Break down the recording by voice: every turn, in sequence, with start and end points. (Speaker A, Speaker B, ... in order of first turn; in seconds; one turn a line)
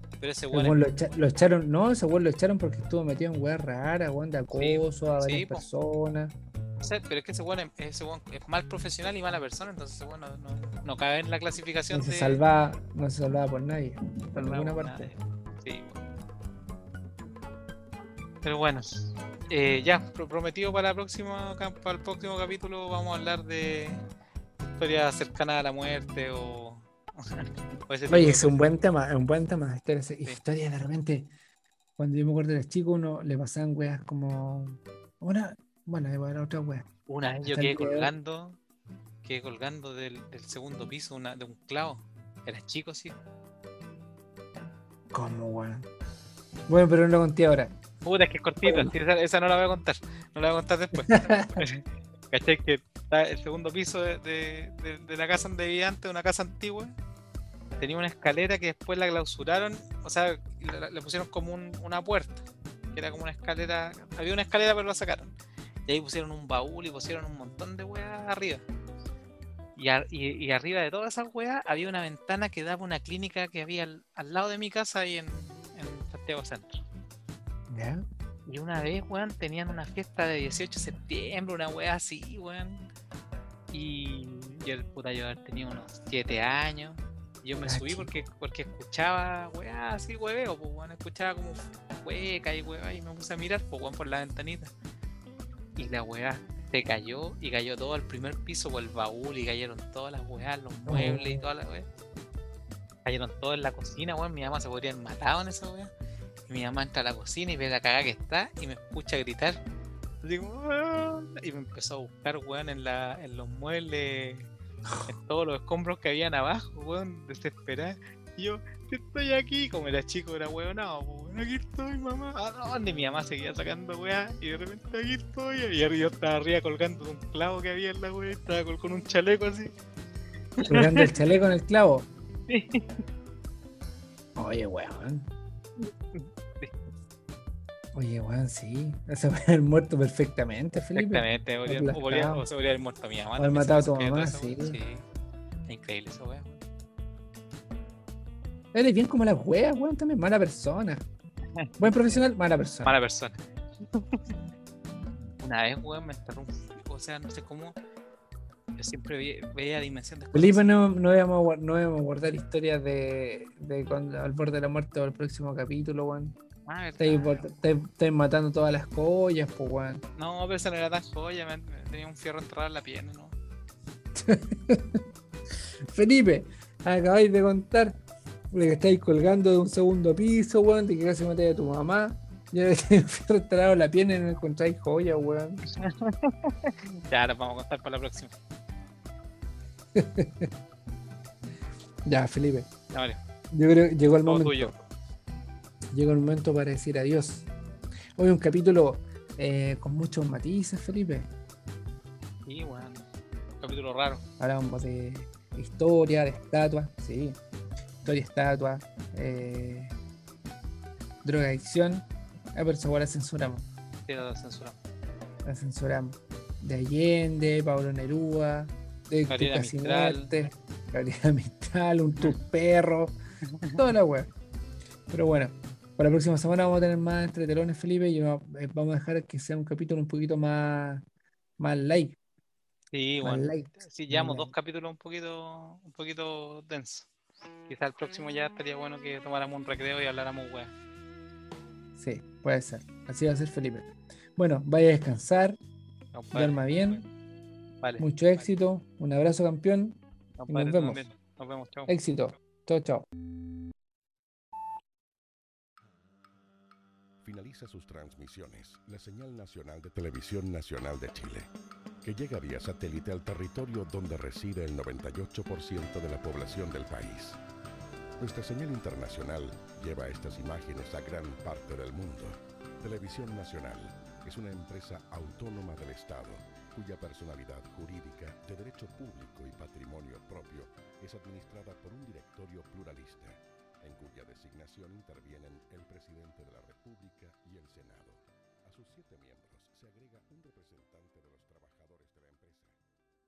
Speaker A: 0.2-0.8
Speaker B: 0.5-6.3
Speaker A: 4.5-5.6
Speaker A: 6.8-12.4
Speaker B: 11.9-15.1
Speaker A: 14.3-16.0
Speaker A: 18.4-24.0
Speaker A: 24.8-28.8
Speaker B: 28.1-31.3
Speaker B: 32.0-36.9
Speaker A: 37.1-38.6
Speaker B: 37.5-38.1
Speaker A: 39.2-43.2
Speaker B: 45.1-45.9
Speaker B: 46.7-47.7
Speaker A: 48.0-57.0
Speaker B: 48.6-48.9
Speaker B: 51.0-51.6
Speaker A: 57.8-65.3
Speaker A: 65.9-68.6
Speaker A: 69.8-76.8
Speaker B: 77.7-78.0
Speaker A: 78.5-82.8
Speaker A: 83.7-94.7
Speaker B: 87.6-88.2
Speaker A: 95.8-101.9
Speaker B: 100.9-101.4
Speaker A: 103.0-105.9
Speaker A: 106.5-109.6
Speaker A: 110.2-114.5
Speaker B: 114.9-115.1
Speaker A: 115.1-129.7
Speaker A: 130.6-131.2
Speaker B: 130.7-132.1
Speaker A: 132.5-132.9
Speaker B: 134.4-135.3
Speaker A: 135.8-136.8
Speaker B: 137.9-142.4
Speaker A: 140.9-145.0
Speaker B: 143.4-144.8
Speaker A: 145.7-146.6
Speaker B: 148.7-151.1
Speaker A: 151.6-152.2
Speaker B: 151.8-152.9
Speaker A: 152.8-153.4
Speaker A: 153.9-154.3
Speaker A: 155.4-157.8
Speaker A: 158.8-160.8
Speaker B: 160.3-166.4
Speaker A: 166.7-167.5
Speaker B: 167.0-170.0
Speaker A: 170.2-173.4
Speaker B: 174.2-175.0
Speaker B: 175.9-178.0
Speaker B: 178.5-185.6
Speaker A: 185.8-188.3
Speaker B: 189.9-190.5
Speaker B: 192.1-192.7
Speaker A: 192.9-193.2
Speaker B: 193.5-194.8
Speaker A: 194.2-194.7
Speaker B: 195.9-197.5
Speaker B: 198.2-201.3
Speaker A: 202.5-203.1
Speaker A: 203.6-204.2
Speaker B: 204.4-207.4
Speaker B: 208.0-209.9
Speaker B: 211.2-213.7
Speaker A: 214.1-214.8
Speaker B: 215.4-223.2
Speaker A: 219.3-220.5
Speaker A: 223.6-223.9
Speaker B: 223.7-224.3
Speaker B: 225.1-231.0
Speaker B: 231.6-232.2
Speaker A: 232.9-237.1
Speaker B: 233.2-234.5
Speaker A: 237.7-240.7
Speaker B: 242.0-245.6
Speaker A: 246.1-247.1
Speaker B: 246.3-247.1
Speaker A: 247.8-248.1
Speaker B: 248.0-251.0
Speaker A: 250.4-252.0
Speaker B: 251.9-253.1
Speaker C: 257.2-261.5
Speaker C: 262.0-267.4
Speaker C: 268.2-292.8